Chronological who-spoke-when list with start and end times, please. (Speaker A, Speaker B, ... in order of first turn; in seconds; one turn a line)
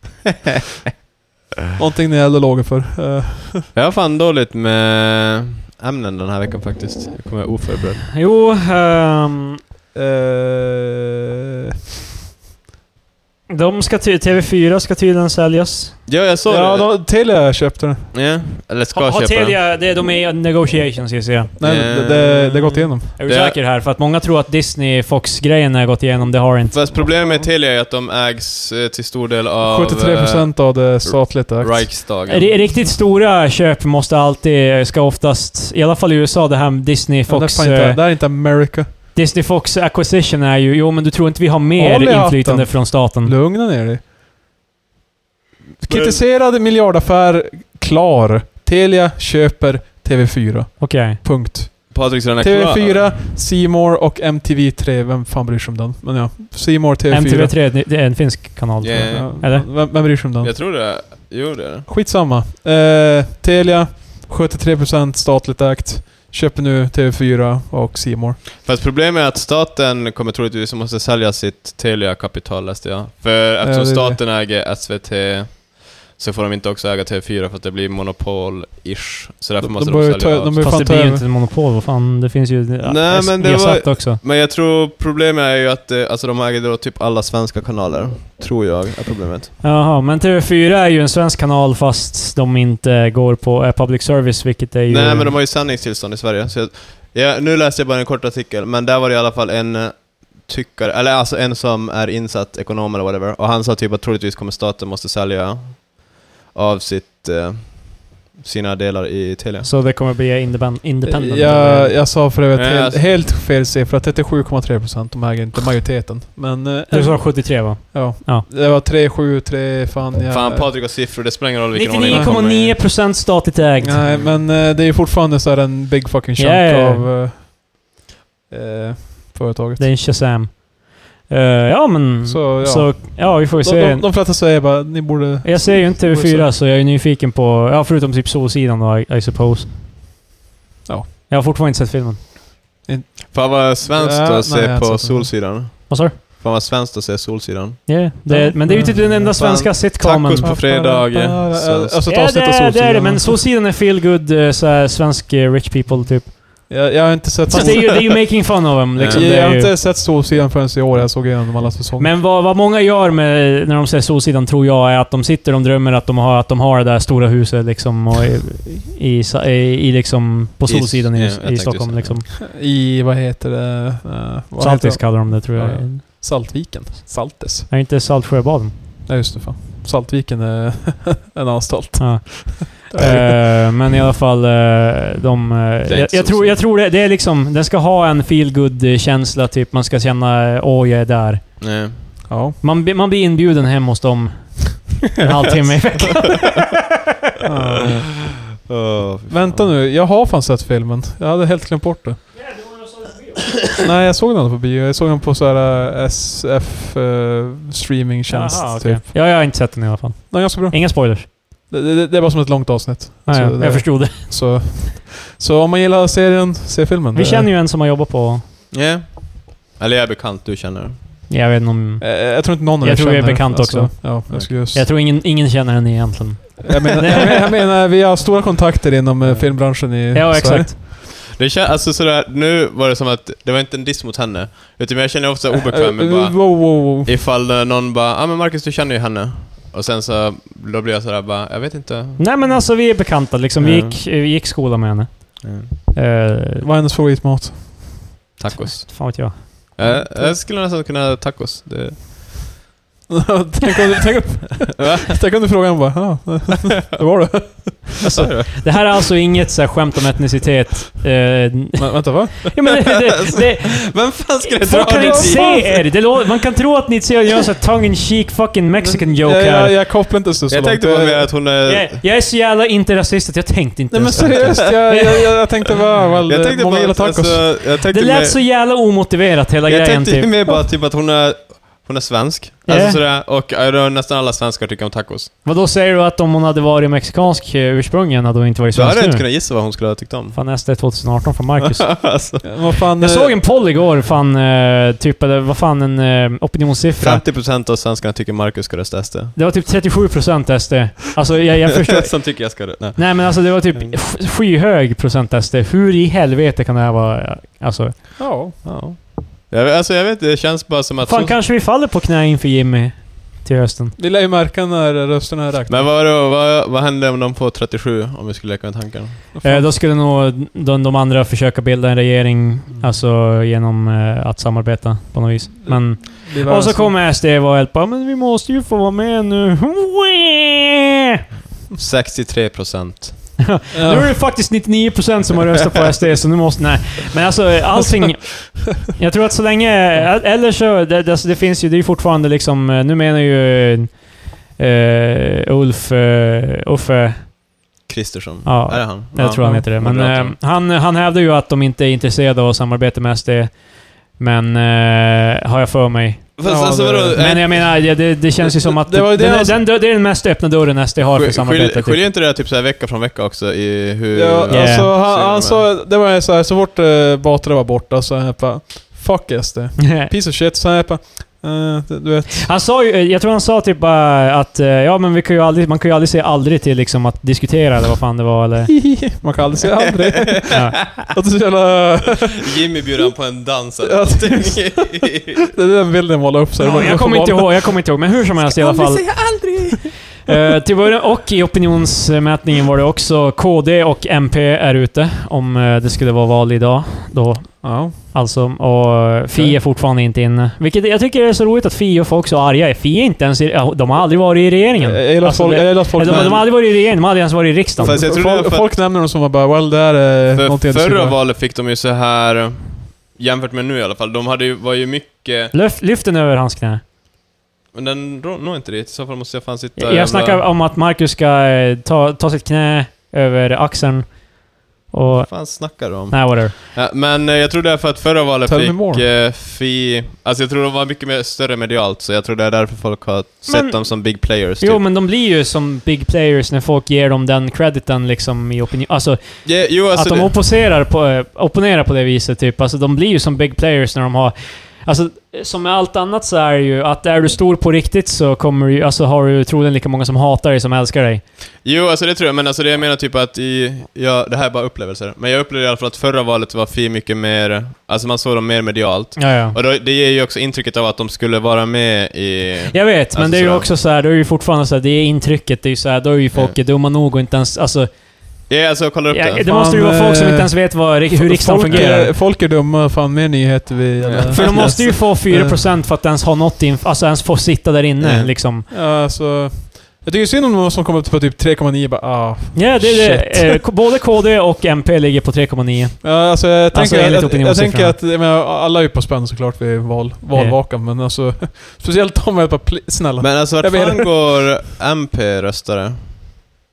Speaker A: 1.7-3.7
Speaker B: 3.7-8.1
Speaker C: 8.1-9.6
Speaker A: 9.9-11.2
Speaker C: 13.5-16.1
Speaker B: 16.1-16.9
Speaker A: 16.4-18.1
Speaker B: 18.1-19.6
Speaker C: 18.9-21.6
Speaker A: 21.6-23.1
Speaker B: 21.6-23.6
Speaker C: 23.1-27.2
Speaker B: 26.7-32.5
Speaker A: 29.6-32.0
Speaker C: 32.2-38.0
Speaker A: 37.3-38.9
Speaker C: 39.1-43.3
Speaker A: 41.8-44.0
Speaker A: 45.8-57.5
Speaker B: 45.9-46.2
Speaker C: 50.8-51.2
Speaker B: 51.9-53.1
Speaker C: 57.1-59.7
Speaker B: 58.8-61.9
Speaker A: 59.1-60.5
Speaker A: 61.9-68.4
Speaker B: 68.6-80.6
Speaker A: 73.6-74.2
Speaker A: 79.6-81.3
Speaker C: 80.6-84.2
Speaker B: 82.8-89.5
Speaker C: 89.6-95.3
Speaker B: 94.9-109.7
Speaker C: 109.6-112.0
Speaker A: 111.0-120.8
Speaker B: 112.5-113.1
Speaker C: 116.9-118.4
Speaker B: 120.3-122.8
Speaker C: 121.7-124.1
Speaker A: 122.1-122.4
Speaker A: 123.8-127.9
Speaker B: 124.0-124.4
Speaker C: 126.4-127.1
Speaker A: 128.5-129.8
Speaker C: 129.8-134.1
Speaker A: 132.2-136.5
Speaker C: 135.4-139.7
Speaker C: 141.3-142.2
Speaker A: 142.8-145.4
Speaker B: 143.3-148.0
Speaker C: 145.9-146.2
Speaker C: 147.9-150.5
Speaker A: 148.3-149.2
Speaker B: 148.8-152.0
Speaker A: 150.4-153.4
Speaker C: 152.1-156.8
Speaker A: 156.7-162.1
Speaker C: 157.5-159.8
Speaker B: 157.5-157.9
Speaker B: 158.9-159.3
Speaker C: 162.0-172.3
Speaker B: 170.7-172.2
Speaker A: 172.4-177.7
Speaker C: 174.6-176.0
Speaker C: 177.7-178.7
Speaker A: 179.1-183.4
Speaker C: 182.0-196.9
Speaker B: 185.9-186.6
Speaker B: 191.6-192.1
Speaker A: 192.3-192.6
Speaker A: 197.4-198.2
Speaker B: 198.7-199.7
Speaker A: 199.3-202.2
Speaker C: 202.3-203.6
Speaker A: 203.8-209.3
Speaker C: 208.3-211.3
Speaker A: 210.3-217.5
Speaker C: 213.2-214.5
Speaker C: 217.1-218.4
Speaker B: 218.7-221.0
Speaker C: 221.3-227.2
Speaker A: 222.0-224.9
Speaker A: 226.7-230.7
Speaker B: 229.2-229.6
Speaker C: 230.1-230.7
Speaker B: 230.9-242.2
Speaker A: 235.7-237.1
Speaker C: 242.2-246.7
Speaker B: 243.6-244.0
Speaker B: 245.4-245.7
Speaker A: 246.6-248.1
Speaker B: 248.4-252.5
Speaker C: 248.6-249.8
Speaker A: 249.8-250.3
Speaker A: 253.1-258.2
Speaker B: 254.8-255.1
Speaker B: 258.0-258.7
Speaker C: 258.6-269.8
Speaker A: 261.8-262.6
Speaker B: 262.8-265.8
Speaker A: 264.8-265.7
Speaker A: 268.8-271.3
Speaker B: 270.5-272.0
Speaker C: 271.6-275.2
Speaker A: 273.9-277.5
Speaker B: 274.1-274.9
Speaker B: 276.2-278.4
Speaker C: 277.9-280.4
Speaker B: 279.7-285.3
Speaker C: 282.6-283.0
Speaker C: 285.4-289.2
Speaker B: 288.7-290.4
Speaker C: 290.3-292.2
Speaker B: 291.6-292.5
Speaker A: 292.4-293.4
Speaker C: 293.0-297.2
Speaker B: 297.0-299.3
Speaker C: 299.3-308.2
Speaker B: 301.8-303.9
Speaker A: 308.2-308.6
Speaker B: 308.6-311.4
Speaker C: 311.0-314.0
Speaker A: 314.0-315.9
Speaker B: 315.7-319.2
Speaker A: 319.3-319.7
Speaker C: 319.4-330.8
Speaker A: 325.6-327.0
Speaker B: 331.7-333.4
Speaker C: 333.4-347.3
Speaker A: 333.7-334.2
Speaker B: 347.9-350.4
Speaker C: 348.4-356.4
Speaker B: 356.4-358.0
Speaker A: 356.4-357.3
Speaker C: 357.1-362.0
Speaker A: 358.6-359.6
Speaker B: 361.1-365.7
Speaker A: 364.1-372.5
Speaker C: 364.5-364.9
Speaker C: 369.8-370.1
Speaker C: 372.4-378.8
Speaker A: 378.7-382.6
Speaker C: 380.5-380.8
Speaker B: 382.4-385.4
Speaker A: 383.8-387.7
Speaker C: 386.6-389.5
Speaker B: 388.4-389.9
Speaker C: 390.2-408.1
Speaker A: 397.6-398.0
Speaker A: 399.3-399.6
Speaker A: 404.8-406.5
Speaker B: 406.0-406.5
Speaker B: 407.8-408.6
Speaker A: 407.8-411.2
Speaker B: 410.3-415.5
Speaker C: 415.5-416.8
Speaker B: 417.7-420.4
Speaker C: 419.8-426.5
Speaker B: 425.2-434.8
Speaker A: 428.4-429.0
Speaker C: 433.4-451.2
Speaker B: 439.4-440.4
Speaker B: 451.6-463.7
Speaker C: 459.2-459.6
Speaker C: 462.7-467.9
Speaker B: 468.5-469.5
Speaker C: 469.1-472.1
Speaker A: 469.4-475.6
Speaker B: 474.0-475.0
Speaker C: 474.3-478.7
Speaker B: 478.0-478.3
Speaker A: 478.7-483.7
Speaker C: 482.5-488.0
Speaker A: 486.0-494.5
Speaker C: 490.3-490.6
Speaker B: 493.2-496.1